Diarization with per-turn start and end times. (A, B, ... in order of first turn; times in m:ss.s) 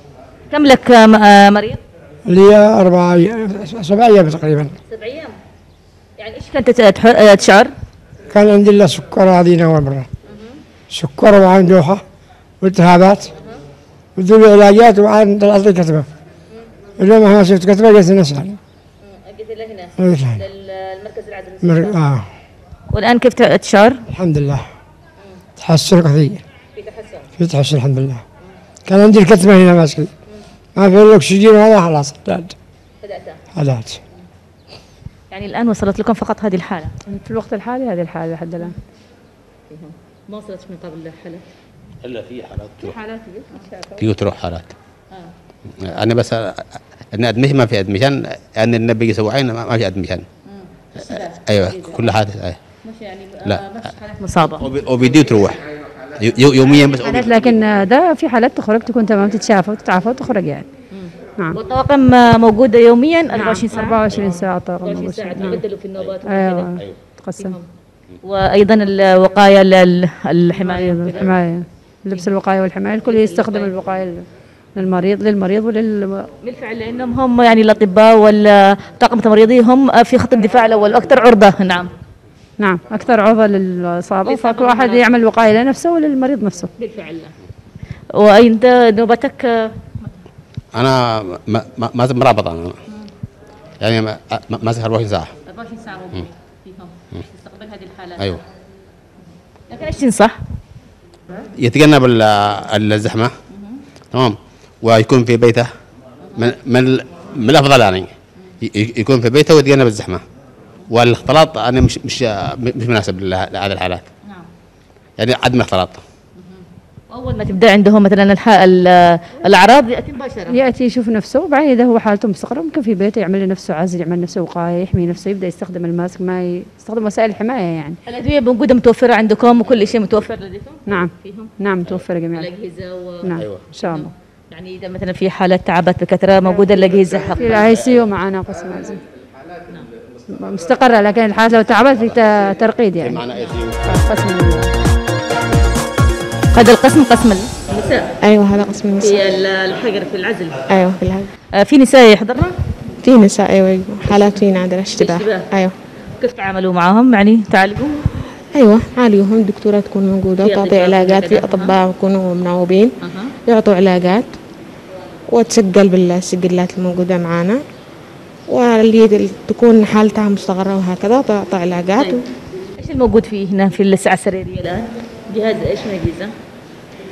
0:00.5-0:01.8 A
0:02.2-0:04.8 B
0:04.8-0:05.3 A
0:06.2-0:07.7 A
0:08.3-0:10.1 B
0:10.3-0:10.6 A
0:10.9-0:12.0 B
0:12.6-0:13.3 B
0:14.2-0:16.1 B
0:17.0-0:18.6 B
0:19.0-0:22.0 A
0:20.0-0:20.4 B
0:21.6-0:22.3 B
0:22.9-0:24.0 A
0:24.1-0:24.7 B
0:25.6-0:26.4 B
0:26.7-0:27.3 A
0:27.4-0:28.2 B
0:28.8-0:30.1 B
0:30.8-0:32.5 B
0:33.0-0:33.4 A
0:33.5-0:34.0 B
0:35.3-0:36.9 A
0:37.1-0:38.8 C
0:39.7-0:41.4 A
0:42.0-0:42.9 D
0:42.8-0:44.0 A
0:44.0-0:44.7 D
0:45.8-0:50.2 D
0:50.5-0:52.0 A
0:51.0-0:52.6 D
0:52.8-0:54.6 A
0:54.6-0:55.6 D
0:56.2-0:57.5 D
0:56.9-1:00.7 C
1:00.9-1:06.8 A
1:03.3-1:05.6 C
1:06.2-1:07.6 C
1:07.4-1:07.6 A
1:08.2-1:11.3 A
1:10.6-1:16.3 C
1:13.0-1:13.7 A
1:16.4-1:21.9 A
1:22.6-1:26.7 C
1:24.2-1:25.0 A
1:26.8-1:27.3 A
1:28.1-1:30.1 A
1:30.7-1:32.8 D
1:33.8-1:35.3 D
1:35.5-1:38.2 A
1:39.7-1:40.4 A
1:41.6-1:43.3 D
1:44.1-1:45.7 D
1:46.3-1:50.2 D
1:50.9-1:54.1 D
1:55.2-1:56.0 D
1:57.1-2:00.6 A
2:00.5-2:08.0 C
2:08.0-2:11.5 A
2:10.9-2:12.5 C
2:12.3-2:17.7 A
2:13.2-2:14.1 C
2:16.4-2:19.0 C
2:20.3-2:23.2 C
2:23.0-2:23.9 D
2:23.8-2:24.7 C
2:26.5-2:28.2 A
2:28.2-2:29.2 E
2:29.0-2:30.6 A
2:30.7-2:31.3 E
2:31.6-2:32.5 A
2:33.0-2:35.7 E
2:34.9-2:35.5 A
2:36.2-2:38.0 A
2:38.5-2:42.9 E
2:40.4-2:41.7 A
2:43.0-2:43.3 A
2:43.4-2:44.3 E
2:45.3-2:47.6 E
2:48.5-2:52.2 E
2:52.8-2:56.3 A